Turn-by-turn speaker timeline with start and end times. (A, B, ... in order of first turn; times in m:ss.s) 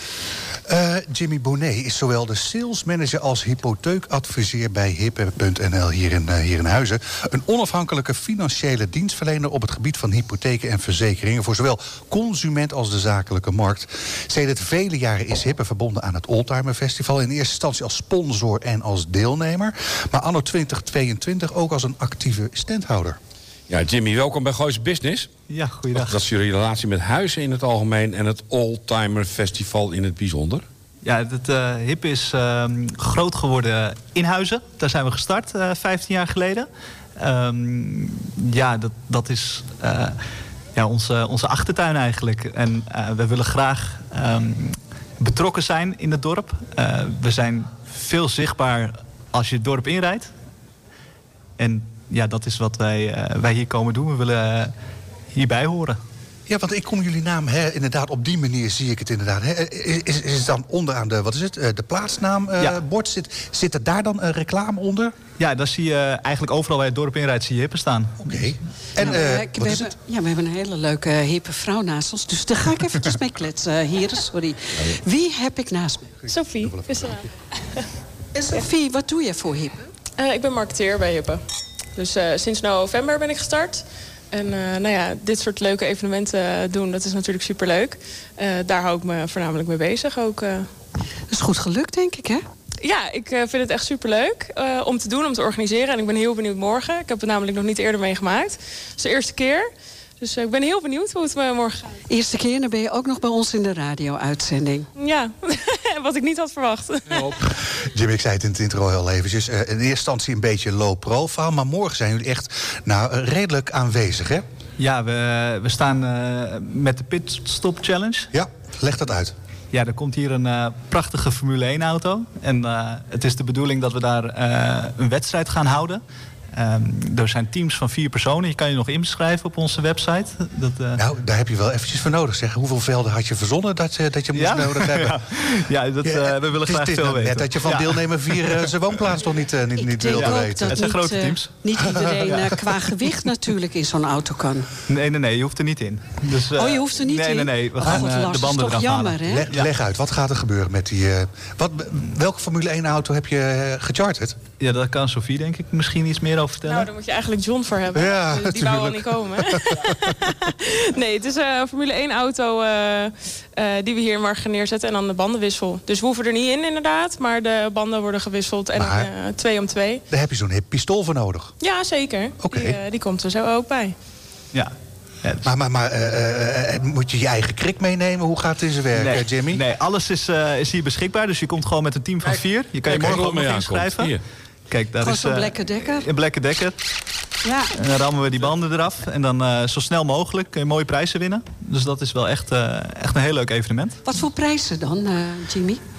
0:00.7-0:23.2 A
0:23.7-0:25.3 B
0:25.5-0:26.2 C
0:25.9-0:30.6 B
0:31.0-0:40.2 C
0:40.8-0:50.3 C
0:51.6-0:54.7 C
0:55.3-0:56.0 C
0:56.5-1:05.2 A
1:05.4-1:08.5 C
1:08.2-1:09.9 A
1:09.0-1:16.2 D
1:16.3-1:17.8 E
1:16.6-1:17.1 A
1:18.4-1:19.9 D
1:20.2-1:21.4 E
1:22.0-1:30.7 E
1:31.3-1:32.4 D
1:32.8-1:39.7 E
1:40.2-1:42.0 E
1:42.1-1:44.9 D
1:45.0-1:47.3 E
1:47.5-1:54.4 A
1:54.8-1:58.3 C
1:58.3-1:59.3 A
1:59.7-2:06.0 C
2:06.5-2:11.0 C
2:11.0-2:15.2 A
2:14.3-2:18.6 C
2:16.0-2:20.8 A
2:19.8-2:24.7 D
2:20.1-2:21.5 C
2:21.8-2:22.4 A
2:22.3-2:22.6 C
2:24.9-2:29.7 C
2:26.6-2:29.5 D
2:29.2-2:34.4 A
2:34.6-2:36.9 C
2:36.6-2:50.0 E
2:37.9-2:40.2 A
2:48.8-2:49.1 A
2:50.1-2:51.5 A
2:51.6-2:54.0 E
2:52.4-2:52.8 A
2:54.5-2:55.5 C
2:55.4-2:59.6 A
2:59.0-3:04.2 C
3:02.2-3:04.2 B
3:04.7-3:06.8 C
3:05.0-3:06.1 D
3:07.4-3:07.7 D
3:07.7-3:14.0 C
3:14.0-3:15.8 D